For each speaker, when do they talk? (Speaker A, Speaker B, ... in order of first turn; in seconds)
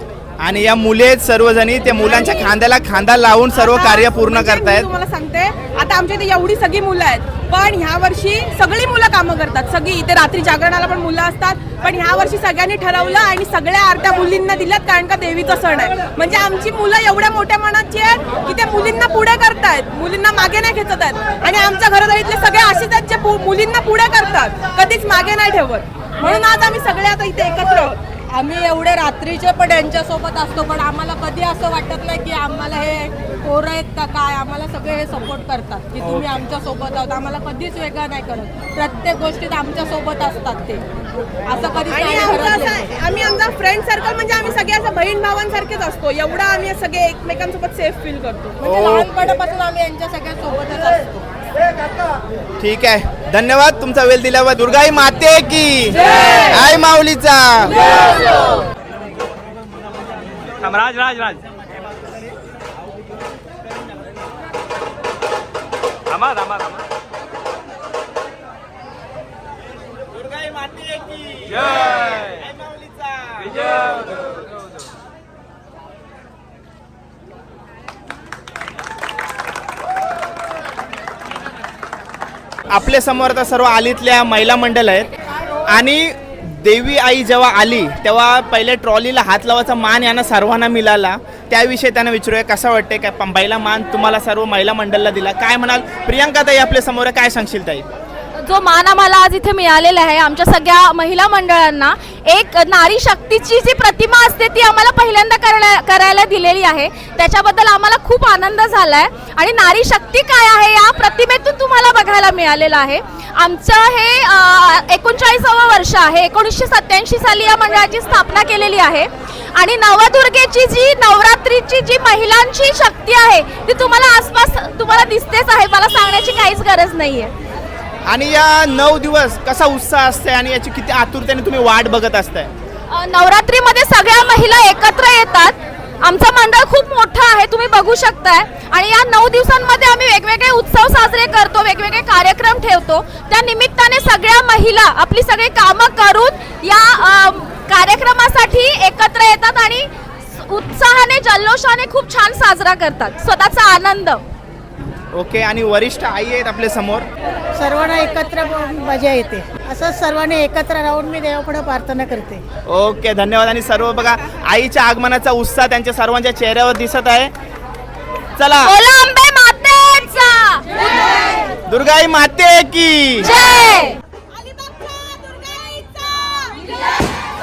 Speaker A: 0.4-4.9, 48.6-49.1, 52.6-58.3, 70.0-73.7, 82.7-85.1, 85.7-97.9, 128.1-132.5, 155.1-157.1, 162.7-167.3, 168.4-168.7, 171.7-173.3
Speaker B: 2.0-2.5, 3.5-28.0, 41.9-48.6
Speaker C: 28.3-40.9, 41.5-42.9, 48.6-51.2
Speaker D: 36.0-36.4, 60.6-61.5, 66.1-66.8
Speaker E: 98.4-127.3, 132.9-154.2, 168.6-171.3, 173.2-174.0
Speaker F: 157.6-162.4